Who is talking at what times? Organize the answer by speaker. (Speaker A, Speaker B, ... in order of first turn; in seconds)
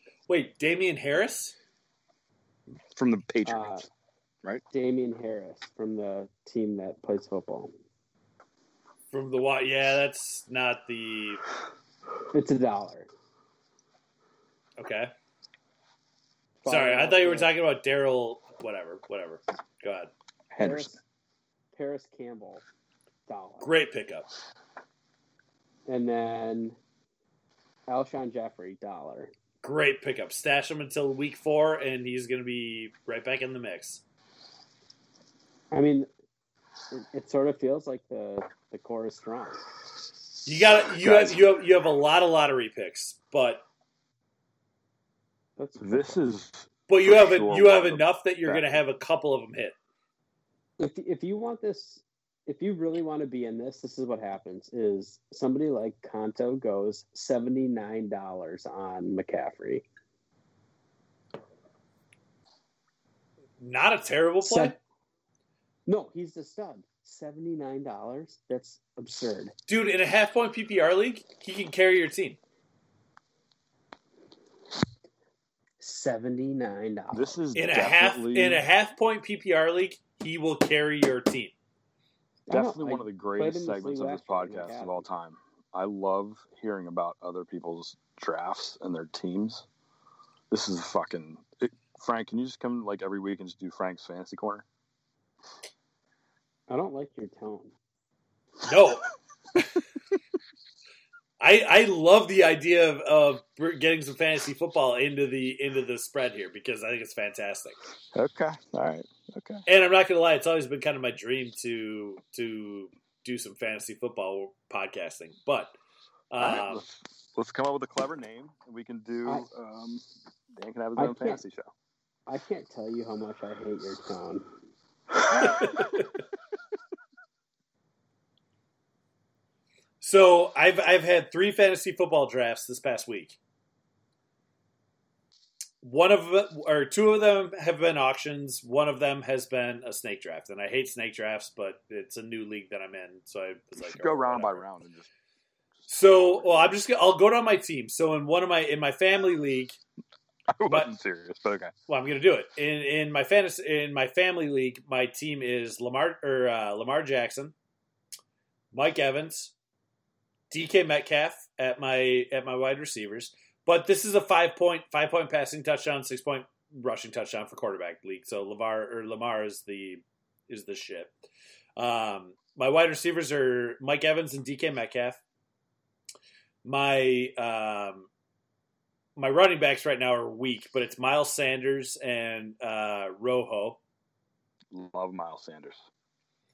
Speaker A: 0.3-1.5, 9.1-11.4, 14.8-15.1, 16.7-20.1, 23.6-24.3, 29.6-34.0, 40.5-43.6, 46.9-49.8, 63.6-64.7, 69.7-72.4, 77.5-81.5, 98.6-99.0, 101.4-107.8, 109.7-115.8, 116.3-116.8, 125.5-126.0, 130.0-133.4, 135.8-144.6, 145.9-149.8, 151.9-157.5, 158.7-159.5, 160.5-171.1, 171.8-175.2, 176.6-178.1, 179.2-183.8
Speaker B: 2.9-3.8, 20.5-21.0, 41.0-41.5, 45.8-48.7, 77.1-78.6, 82.5-89.7, 90.5-94.6, 108.1-109.6, 116.4-120.0, 120.5-121.7, 143.8-145.1, 145.8-146.7, 150.5-151.7, 184.7-185.8
Speaker C: 3.4-3.8, 4.7-7.7, 12.3-13.1, 16.6-17.5, 20.6-21.0, 21.7-22.6, 23.3-23.7, 25.9-26.8, 27.9-29.3, 35.7-36.1, 36.9-39.6, 45.6-46.2, 50.8-59.8, 64.4-64.8, 65.8-69.5, 75.8-77.4, 82.5-85.0, 96.7-97.7, 121.0-121.4, 122.3-124.5